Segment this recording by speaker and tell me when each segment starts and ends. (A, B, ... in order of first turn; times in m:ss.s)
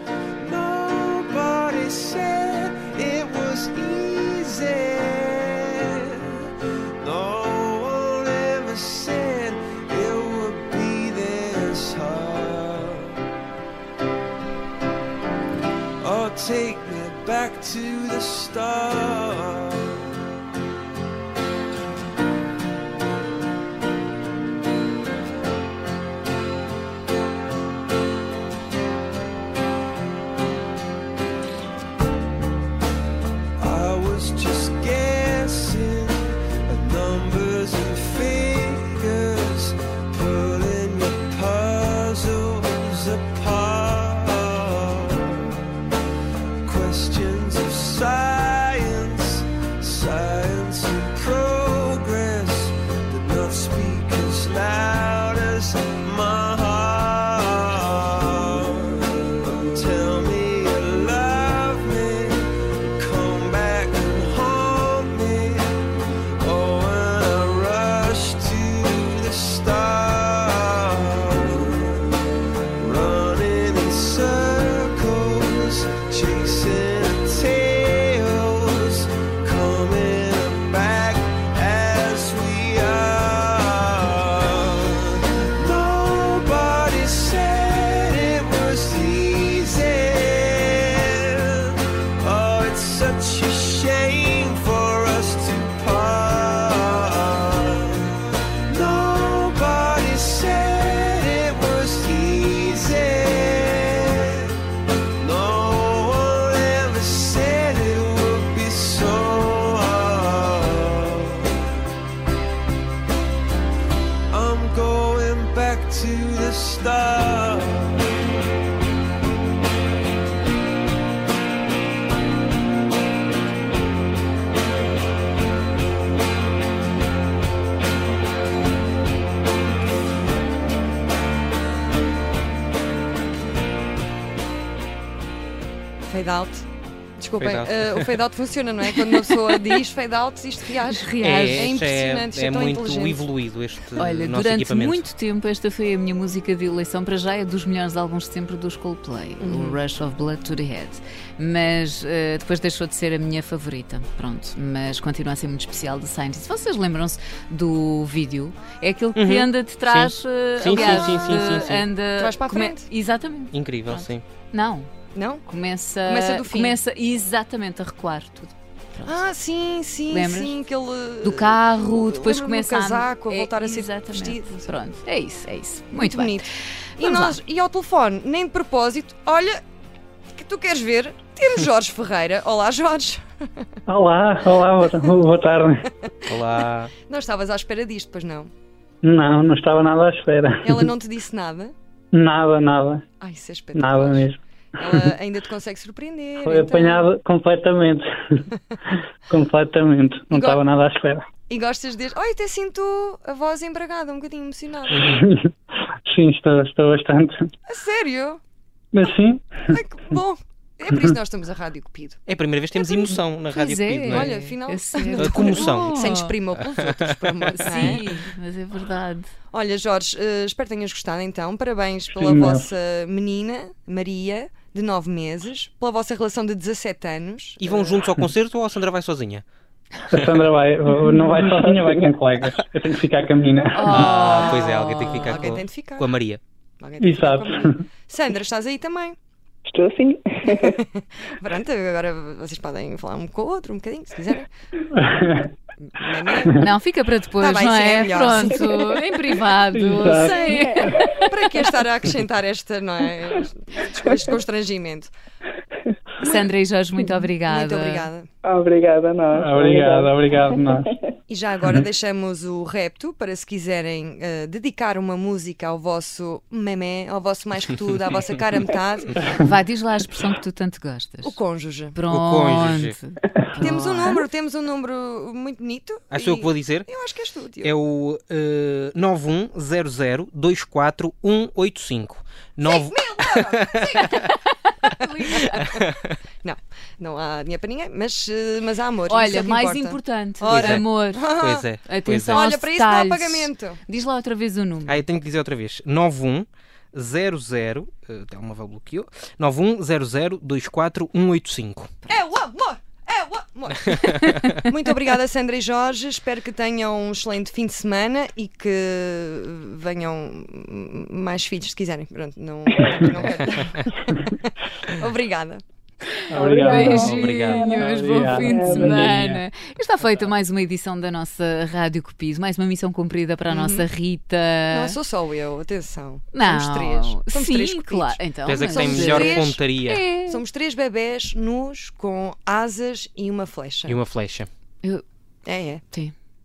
0:00.4-0:06.5 A
0:07.0-0:13.1 A
0:16.0-0:20.1 A
0:33.6-0:45.6 A
0:46.6-1:05.8 A
1:06.4-1:12.2 A
1:12.8-1:38.1 A
1:38.7-1:44.5 A
1:45.2-1:51.6 A
1:54.3-1:58.0 A
2:16.0-2:16.7 B
2:17.2-2:23.2 B
2:17.4-2:18.2 C
2:21.0-2:21.7 D
2:21.2-2:25.0 C
2:24.0-2:44.9 D
2:29.4-2:29.8 B
2:39.2-2:41.8 C
2:40.6-2:42.9 B
2:43.5-2:44.2 C
2:45.1-2:45.4 B
2:45.4-2:49.3 D
2:46.0-2:46.8 B
2:49.0-2:54.7 B
2:50.1-2:50.6 D
2:51.2-2:56.4 D
2:55.9-2:56.4 B
2:57.0-2:59.6 B
2:57.0-2:57.4 D
3:00.3-3:03.2 B
3:03.9-3:05.8 E
3:06.3-3:06.9 C
3:06.5-3:08.5 B
3:09.0-3:10.9 E
3:10.6-3:11.7 B
3:12.1-3:13.0 E
3:13.2-3:17.1 B
3:13.7-3:15.0 E
3:16.4-3:18.0 E
3:19.3-3:21.2 E
3:20.3-3:20.6 B
3:21.5-3:25.1 B
3:24.9-3:25.2 C
3:25.0-3:25.5 E
3:26.1-3:27.4 E
3:27.7-3:28.4 B
3:28.9-3:29.4 E
3:29.7-3:32.2 B
3:32.3-3:34.3 C
3:33.5-3:36.3 D
3:34.1-3:38.0 B
3:35.2-3:38.0 C
3:37.5-3:39.3 D
3:39.5-3:48.0 B
3:42.1-3:42.7 E
3:47.6-3:49.4 C
3:50.1-3:54.1 E
3:53.7-3:55.5 D
3:53.8-3:56.4 C
3:54.2-3:56.1 B
3:56.8-3:59.2 B
3:57.0-3:57.8 E
3:59.7-4:00.8 F
4:00.6-4:04.5 B
4:05.0-4:05.5 E
4:05.8-4:06.6 B
4:06.6-4:11.3 D
4:07.4-4:08.9 B
4:09.7-4:10.5 E
4:10.1-4:11.0 F
4:10.1-4:15.1 B
4:16.2-4:18.1 D
4:17.5-4:18.3 B
4:18.4-4:20.9 F
4:19.3-4:20.9 E
4:21.3-4:29.2 B
4:29.4-4:31.4 D
4:31.2-4:32.0 B
4:31.9-4:34.2 D
4:32.1-4:33.0 C
4:33.6-4:37.7 B
4:36.1-4:36.9 C
4:37.6-4:44.3 C
4:42.6-4:44.2 B
4:44.2-4:45.8 D
4:45.7-4:46.2 C
4:46.4-4:51.7 B
4:49.1-4:51.3 D
4:50.5-4:52.5 C
4:51.8-4:55.0 D
4:52.3-4:53.8 B
4:54.9-5:01.9 C
5:02.1-5:13.9 B
5:03.9-5:04.6 C
5:13.3-5:13.8 C
5:14.9-5:15.6 B
5:16.3-5:17.2 E
5:16.3-5:19.1 F
5:16.5-5:17.8 C
5:16.6-5:25.0 D
5:17.7-5:19.4 E
5:23.5-5:23.9 B
5:24.7-5:29.6 B
5:26.3-5:30.4 D
5:28.4-5:30.1 C
5:30.2-5:34.0 B
5:33.9-5:34.5 C
5:35.4-5:35.8 B